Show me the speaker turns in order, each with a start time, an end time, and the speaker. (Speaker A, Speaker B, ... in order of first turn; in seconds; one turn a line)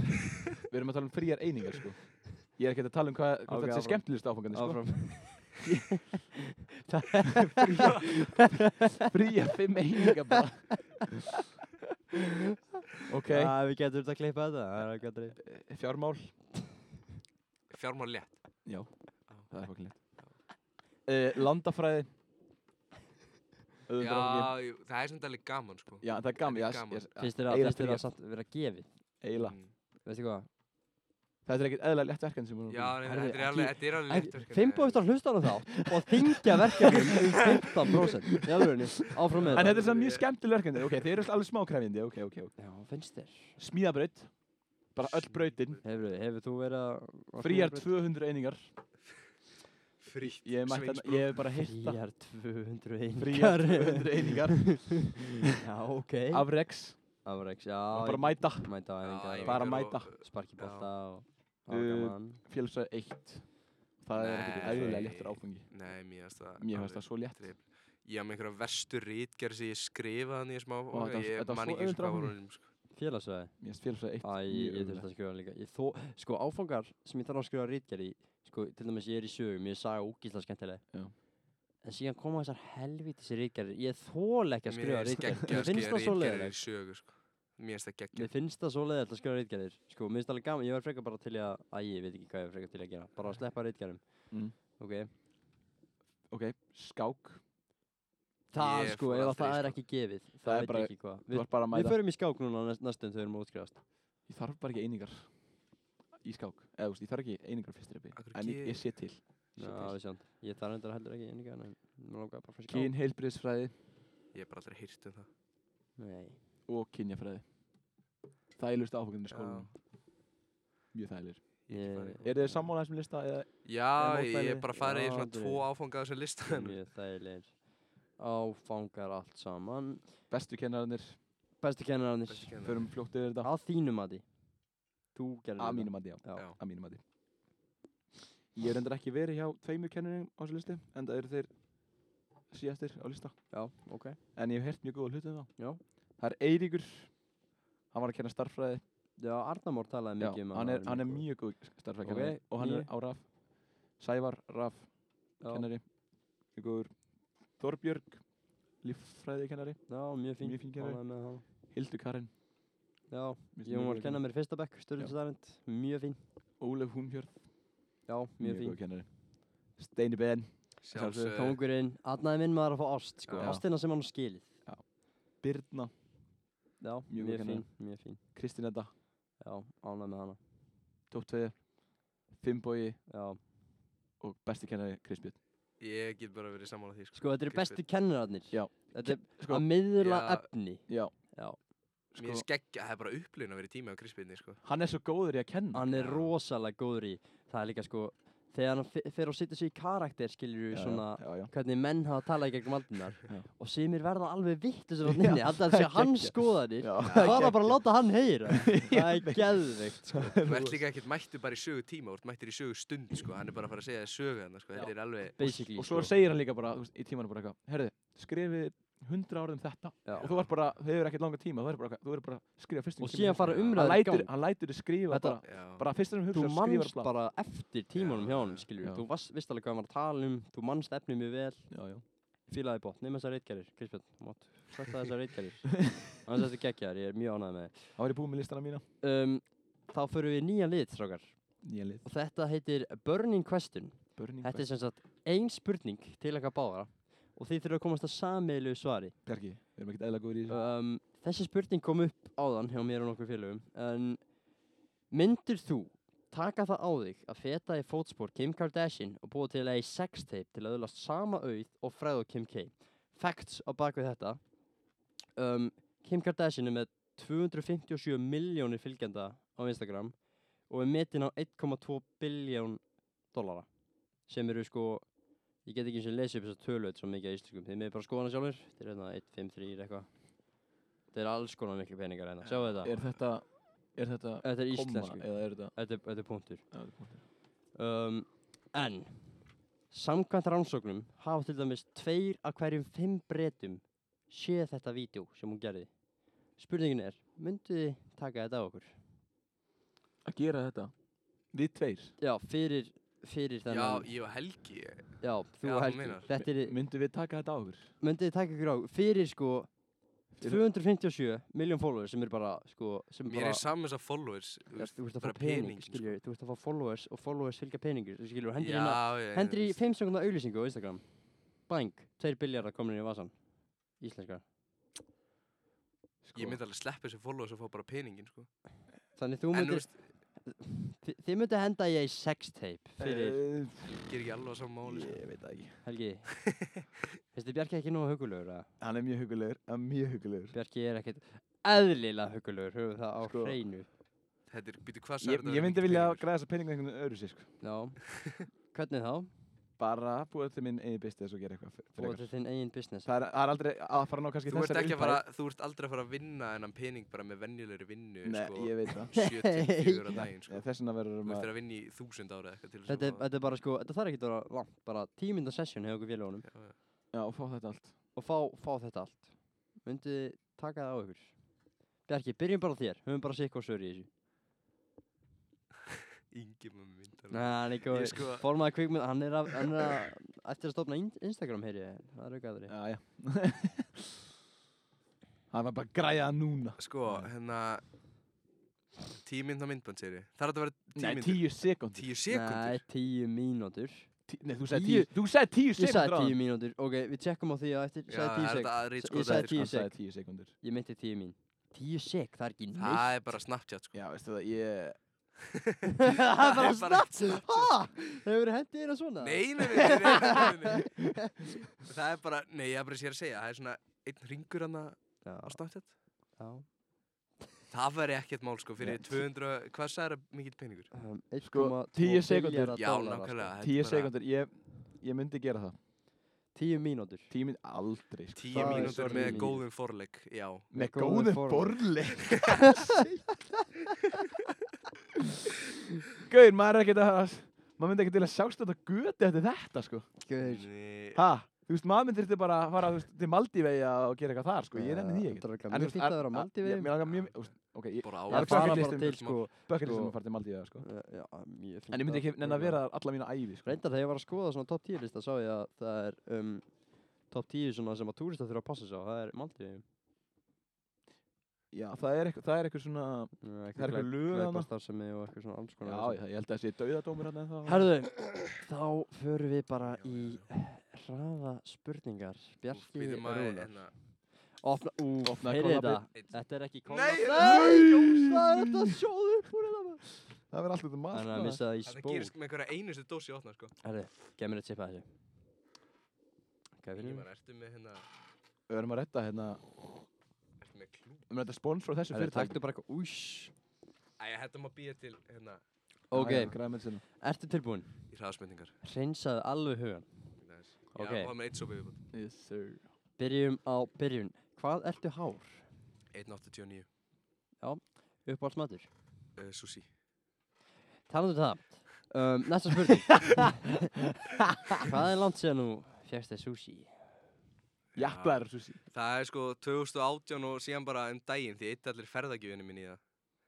Speaker A: 0.7-5.8
Speaker B: 3.5-6.2
Speaker B: 6.8-9.0
Speaker A: 7.5-7.9
Speaker C: 7.7-8.1
Speaker A: 9.1-11.1
Speaker A: 13.1-13.5
Speaker B: 13.3-15.4
Speaker A: 15.4-16.3
Speaker C: 17.7-18.6
Speaker A: 18.6-20.2
Speaker C: 19.3-20.4
Speaker A: 21.1-22.1
Speaker A: 23.9-24.5
Speaker C: 24.0-27.1
Speaker A: 26.0-28.1
Speaker B: 27.2-28.9
Speaker A: 29.2-29.6
Speaker C: 29.4-29.7
Speaker B: 30.0-30.5
Speaker A: 31.4-33.0
Speaker C: 32.7-35.1
Speaker B: 33.0-39.8
Speaker A: 36.8-37.5
Speaker A: 38.0-38.4
Speaker C: 39.3-40.3
Speaker A: 39.5-42.5
Speaker B: 42.6-43.6
Speaker A: 43.6-44.4
Speaker A: 44.9-45.8
Speaker C: 45.0-45.8
Speaker B: 45.8-47.9
Speaker A: 47.4-48.7
Speaker C: 50.0-51.4
Speaker A: 50.2-52.0
Speaker B: 51.6-62.4
Speaker A: 53.2-55.2
Speaker A: 56.3-57.2
Speaker A: 57.9-58.7
Speaker C: 59.0-60.9
Speaker A: 59.4-60.1
Speaker A: 61.7-65.8
Speaker C: 64.1-72.7
Speaker B: 64.6-65.1
Speaker A: 66.6-67.4
Speaker A: 70.9-72.4
Speaker B: 72.9-73.6
Speaker A: 73.6-75.1
Speaker B: 74.2-80.9
Speaker B: 81.8-86.6
Speaker C: 84.7-88.3
Speaker B: 88.2-95.1
Speaker A: 94.3-94.5
Speaker A: 96.3-97.4
Speaker B: 98.5-103.8
Speaker C: 98.6-99.8
Speaker A: 100.4-102.0
Speaker A: 104.3-105.5
Speaker A: 106.2-110.0
Speaker C: 108.1-109.2
Speaker B: 109.6-112.9
Speaker A: 112.7-113.7
Speaker C: 114.3-115.3
Speaker B: 116.0-116.4
Speaker A: 116.7-117.5
Speaker A: 118.6-119.7
Speaker C: 119.3-119.7
Speaker A: 120.9-124.7
Speaker C: 121.7-122.7
Speaker B: 121.7-122.4
Speaker C: 123.6-126.8
Speaker B: 124.7-125.7
Speaker B: 126.5-127.6
Speaker B: 128.2-130.0
Speaker A: 130.3-131.2
Speaker B: 131.6-132.6
Speaker C: 132.3-132.8
Speaker A: 132.6-133.5
Speaker B: 133.4-134.2
Speaker B: 135.1-136.5
Speaker A: 135.6-137.0
Speaker A: 138.5-141.5
Speaker A: 142.5-143.6
Speaker B: 143.5-144.2
Speaker A: 144.3-147.2
Speaker A: 147.9-148.8
Speaker B: 149.2-151.4
Speaker A: 150.2-155.9
Speaker B: 152.0-152.9
Speaker B: 155.4-155.7
Speaker A: 156.4-158.3
Speaker A: 158.8-162.3
Speaker B: 159.9-161.4
Speaker B: 163.1-166.2
Speaker A: 163.6-164.4
Speaker A: 166.6-167.6
Speaker B: 168.1-168.8
Speaker A: 168.4-171.3
Speaker C: 170.8-171.6
Speaker B: 171.3-174.5
Speaker C: 173.3-173.6
Speaker A: 173.4-173.7
Speaker A: 174.6-175.9
Speaker B: 176.8-178.2
Speaker A: 177.1-178.9
Speaker B: 179.4-180.4
Speaker A: 181.1-183.0
Speaker B: 183.1-183.4
Speaker A: 184.2-185.4
Speaker C: 185.8-187.8
Speaker B: 187.1-191.6
Speaker A: 188.5-189.7
Speaker C: 190.0-190.5
Speaker A: 192.1-192.5
Speaker C: 192.1-194.6
Speaker A: 194.6-195.9
Speaker B: 195.7-210.4
Speaker C: 195.9-196.3
Speaker A: 200.7-201.5
Speaker A: 205.0-207.8
Speaker C: 207.0-207.6
Speaker A: 208.5-210.8
Speaker C: 210.4-215.5
Speaker A: 214.8-227.1
Speaker B: 214.8-216.1
Speaker B: 220.1-220.3
Speaker C: 220.2-220.5
Speaker B: 223.0-224.4
Speaker C: 223.4-223.8
Speaker B: 225.1-225.4
Speaker C: 225.4-225.8
Speaker B: 226.3-231.9
Speaker C: 227.9-228.7
Speaker A: 231.7-232.0
Speaker B: 232.4-238.0
Speaker A: 238.0-238.8
Speaker B: 239.0-241.4
Speaker A: 241.6-242.1
Speaker B: 242.0-249.1
Speaker A: 244.2-244.7
Speaker A: 249.2-250.6
Speaker B: 250.5-254.3
Speaker B: 255.1-264.4
Speaker B: 265.4-270.1
Speaker B: 270.6-273.7
Speaker B: 274.2-275.1
Speaker B: 275.6-280.1
Speaker B: 281.1-283.0
Speaker A: 282.8-285.8
Speaker B: 284.4-286.7
Speaker A: 286.7-287.2
Speaker B: 287.7-289.4
Speaker B: 289.9-295.9
Speaker B: 296.6-298.9
Speaker A: 300.2-300.9
Speaker A: 301.5-302.1
Speaker B: 302.2-304.1
Speaker C: 303.7-306.4
Speaker B: 305.2-306.8
Speaker A: 306.6-307.9
Speaker B: 308.0-309.7
Speaker A: 310.4-310.6
Speaker B: 310.4-313.6
Speaker C: 313.3-316.1
Speaker B: 314.8-323.4
Speaker C: 318.6-319.8
Speaker B: 323.9-324.4
Speaker A: 326.2-326.6
Speaker C: 326.4-328.6
Speaker B: 329.1-333.4
Speaker C: 329.5-330.1
Speaker A: 333.0-334.0
Speaker C: 333.9-335.2
Speaker A: 334.8-335.8
Speaker B: 335.8-336.6
Speaker B: 337.3-338.7
Speaker A: 338.8-340.5
Speaker B: 340.5-343.9
Speaker A: 343.2-343.6
Speaker C: 344.5-346.2
Speaker A: 345.2-347.5
Speaker B: 347.6-349.3
Speaker A: 349.8-352.2
Speaker B: 352.0-353.1
Speaker A: 353.1-355.2
Speaker C: 354.5-360.7
Speaker A: 358.2-359.2
Speaker B: 359.1-360.3
Speaker A: 360.1-361.5
Speaker C: 361.2-363.2
Speaker B: 362.9-366.5
Speaker C: 366.5-366.8
Speaker A: 367.1-367.9
Speaker B: 368.1-371.3
Speaker B: 372.1-374.1
Speaker C: 376.3-378.5
Speaker B: 377.3-382.8
Speaker A: 382.7-384.1
Speaker A: 385.5-387.3
Speaker C: 386.8-387.8
Speaker C: 389.2-392.8
Speaker A: 391.0-392.1
Speaker B: 392.3-394.1
Speaker A: 394.3-396.4
Speaker B: 394.7-395.1
Speaker B: 395.8-400.0
Speaker C: 398.1-399.7
Speaker A: 399.1-400.5
Speaker B: 400.6-403.1
Speaker C: 402.8-403.9
Speaker A: 403.9-405.0
Speaker C: 405.4-407.8
Speaker B: 406.0-411.3
Speaker C: 409.2-410.9
Speaker C: 411.7-415.9
Speaker B: 415.2-415.6
Speaker B: 416.3-416.7
Speaker C: 417.7-420.9
Speaker A: 418.8-419.3
Speaker B: 420.9-423.5
Speaker A: 421.4-422.8
Speaker C: 422.8-424.1
Speaker A: 423.6-425.8
Speaker B: 426.5-427.3
Speaker A: 427.3-429.6
Speaker C: 428.4-430.7
Speaker B: 428.5-429.6
Speaker A: 430.7-433.0
Speaker B: 430.7-431.9
Speaker B: 432.5-433.4
Speaker A: 436.2-440.1
Speaker B: 440.2-440.7
Speaker C: 440.4-441.2
Speaker A: 441.1-450.9
Speaker B: 444.7-446.9
Speaker C: 447.0-449.4
Speaker B: 448.3-450.2
Speaker B: 450.8-453.1
Speaker A: 451.9-453.8
Speaker B: 453.6-459.8
Speaker A: 461.7-464.7
Speaker B: 463.4-466.2
Speaker A: 465.8-467.9
Speaker B: 467.7-473.9
Speaker C: 469.9-470.5
Speaker C: 472.7-473.9
Speaker B: 474.6-480.1
Speaker A: 475.2-476.0
Speaker C: 476.9-477.9
Speaker A: 477.4-479.0
Speaker A: 480.5-481.6
Speaker B: 481.1-482.3
Speaker C: 481.9-483.7
Speaker B: 483.8-485.1
Speaker B: 486.8-487.3
Speaker C: 486.9-488.1
Speaker A: 488.7-489.6
Speaker C: 490.6-491.3
Speaker A: 491.3-492.6
Speaker B: 492.1-493.5
Speaker C: 494.2-495.6
Speaker B: 496.1-496.6
Speaker A: 496.1-497.0
Speaker B: 497.2-498.0
Speaker C: 498.1-498.7
Speaker B: 498.8-500.1
Speaker C: 500.4-502.0
Speaker B: 500.9-501.3
Speaker A: 502.1-502.9
Speaker B: 503.2-505.6
Speaker C: 506.1-506.9
Speaker B: 507.6-508.9
Speaker C: 509.4-509.9
Speaker B: 511.1-513.8
Speaker B: 514.8-516.9
Speaker C: 518.0-523.1
Speaker A: 518.0-518.8